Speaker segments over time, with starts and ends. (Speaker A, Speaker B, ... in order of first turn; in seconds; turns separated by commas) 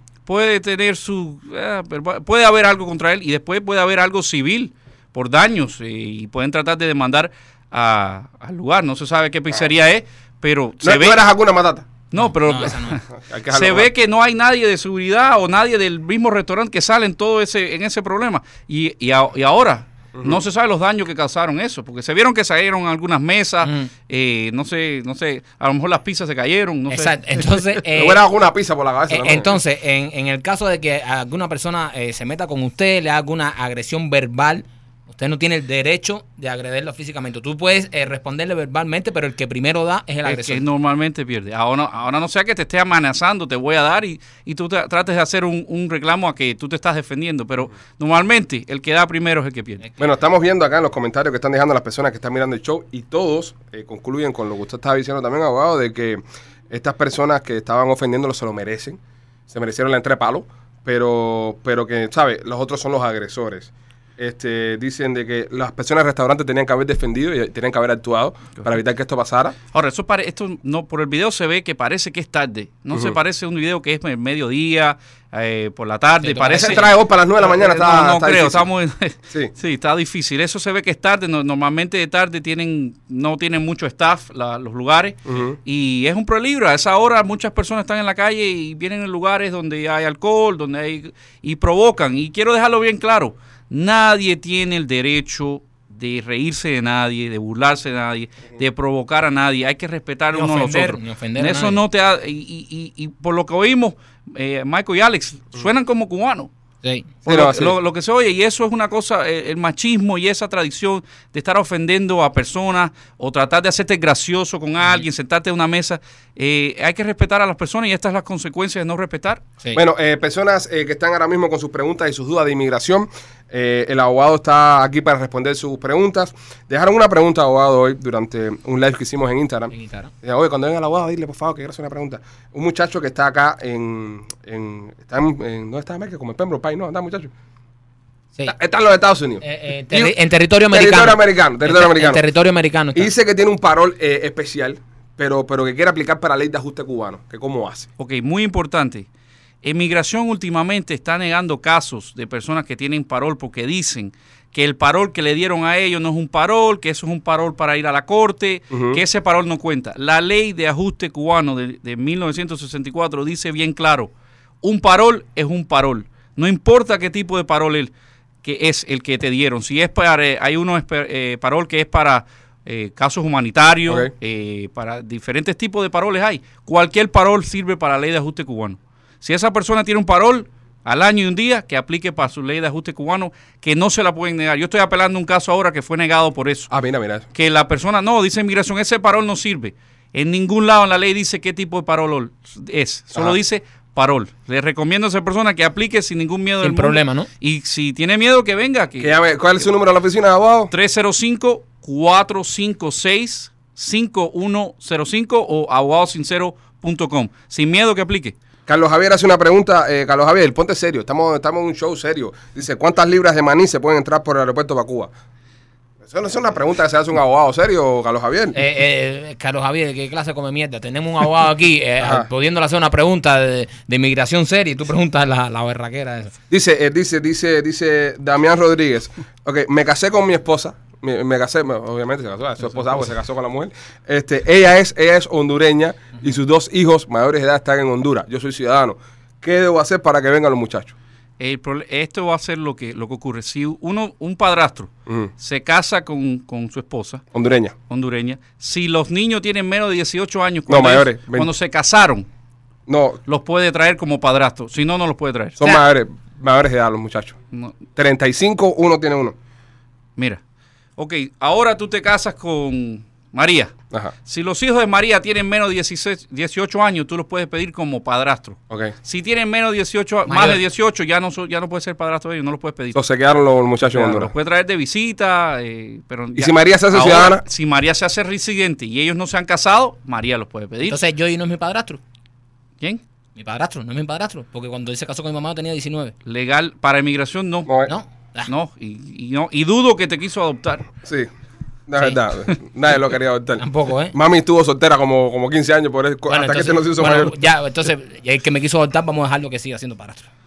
Speaker A: 0.2-11.2, Speaker B: 10.8-11.9, Speaker A: 12.1-27.2, Speaker C: 12.2-13.0, Speaker B: 13.2-13.9, Speaker B: 20.1-20.4, Speaker C: 23.6-23.9, Speaker C: 26.9-28.2, Speaker B: 27.9-29.5, Speaker C: 29.1-40.6, Speaker A: 40.2-49.8, Speaker B: 50.0-69.5, Speaker A: 69.7-106.5, Speaker C: 76.2-76.9, Speaker B: 76.5-78.7, Speaker B: 85.3-85.6, Speaker C: 100.3-101.8, Speaker C: 106.8-107.1, Speaker A: 107.2-119.4, Speaker B: 107.3-107.7, Speaker B: 119.7-137.3, Speaker C: 129.7-130.1, Speaker B: 138.5-140.2, Speaker C: 139.4-143.1, Speaker B: 140.7-142.2, Speaker B: 142.9-147.9, Speaker A: 148.0-149.1, Speaker A: 149.6-167.9, Speaker B: 158.7-159.0, Speaker A: 168.4-186.7, Speaker B: 186.7-187.2, Speaker A: 187.3-199.1, Speaker C: 196.6-197.3, Speaker B: 199.0-200.7, Speaker A: 200.7-208.3, Speaker B: 208.7-215.1, Speaker B: 216.1-218.6, Speaker C: 218.5-226.3, Speaker B: 222.0-222.3, Speaker B: 226.5-240.9, Speaker A: 241.4-247.2, Speaker B: 247.3-247.7, Speaker A: 247.9-252.3, Speaker B: 250.7-251.5, Speaker B: 252.9-253.2, Speaker A: 253.3-255.6, Speaker B: 255.6-257.4, Speaker B: 257.9-259.3, Speaker A: 261.0-263.7, Speaker A: 264.2-273.0, Speaker C: 270.3-270.6, Speaker B: 272.9-274.3, Speaker A: 273.8-281.0, Speaker B: 276.4-277.4, Speaker C: 280.8-282.0, Speaker C: 283.4-286.1, Speaker A: 286.2-287.7, Speaker C: 287.9-288.5, Speaker A: 288.5-290.9, Speaker B: 291.0-291.3, Speaker B: 291.9-297.3, Speaker C: 293.6-294.1, Speaker C: 296.3-300.3